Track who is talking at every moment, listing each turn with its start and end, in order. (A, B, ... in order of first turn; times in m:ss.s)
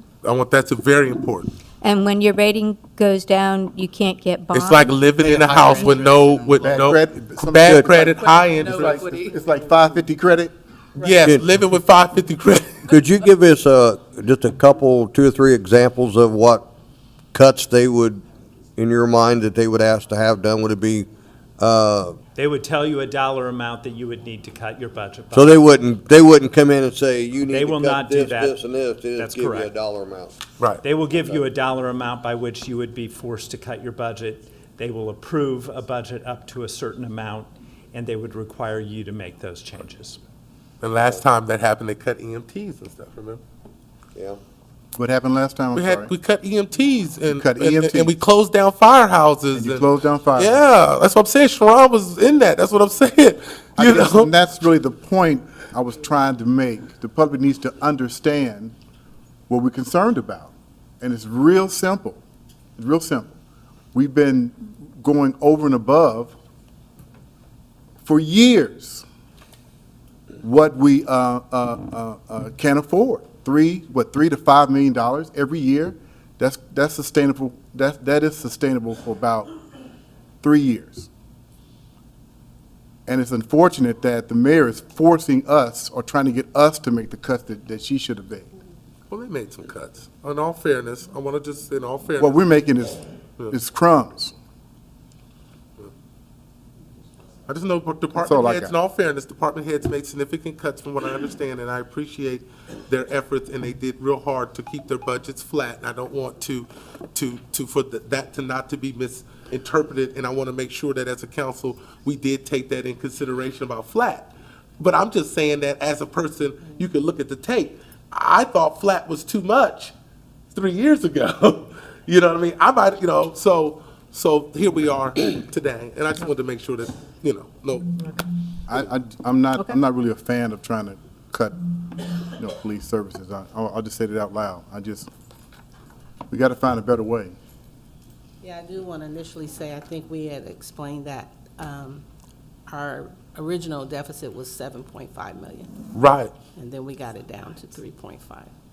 0:00.2-0:01.5 A
0:01.8-0:05.1 B
0:04.6-0:09.1 A
0:05.2-0:10.5 C
0:08.0-0:09.4 D
0:11.0-0:12.9 A
0:12.9-0:16.7 E
0:17.3-0:18.2 E
0:18.8-0:21.1 E
0:21.6-0:22.2 E
0:22.4-0:25.6 F
0:25.3-0:30.4 E
0:27.5-0:28.6 F
0:29.2-0:29.7 F
0:30.8-0:40.2 F
0:40.8-0:43.4 A
0:45.0-0:46.1 C
0:45.7-0:54.3 A
0:47.4-0:48.1 C
0:49.5-0:50.6 C
0:53.8-0:58.8 C
0:59.5-1:02.2 C
1:02.8-1:03.4 C
1:03.9-1:06.4 C
1:08.0-1:09.0 C
1:10.4-1:19.5 C
1:20.4-1:21.1 C
1:23.1-1:28.5 C
1:29.1-1:32.5 A
1:32.2-1:34.4 C
1:37.5-1:59.9 A
1:38.2-1:38.7 C
2:00.5-2:08.0 A
2:08.7-2:11.6 C
2:12.2-2:15.1 C
2:16.3-2:17.4 C
2:18.4-2:22.0 D
2:22.7-2:25.7 D
2:25.9-2:26.4 A
2:26.5-2:28.5 D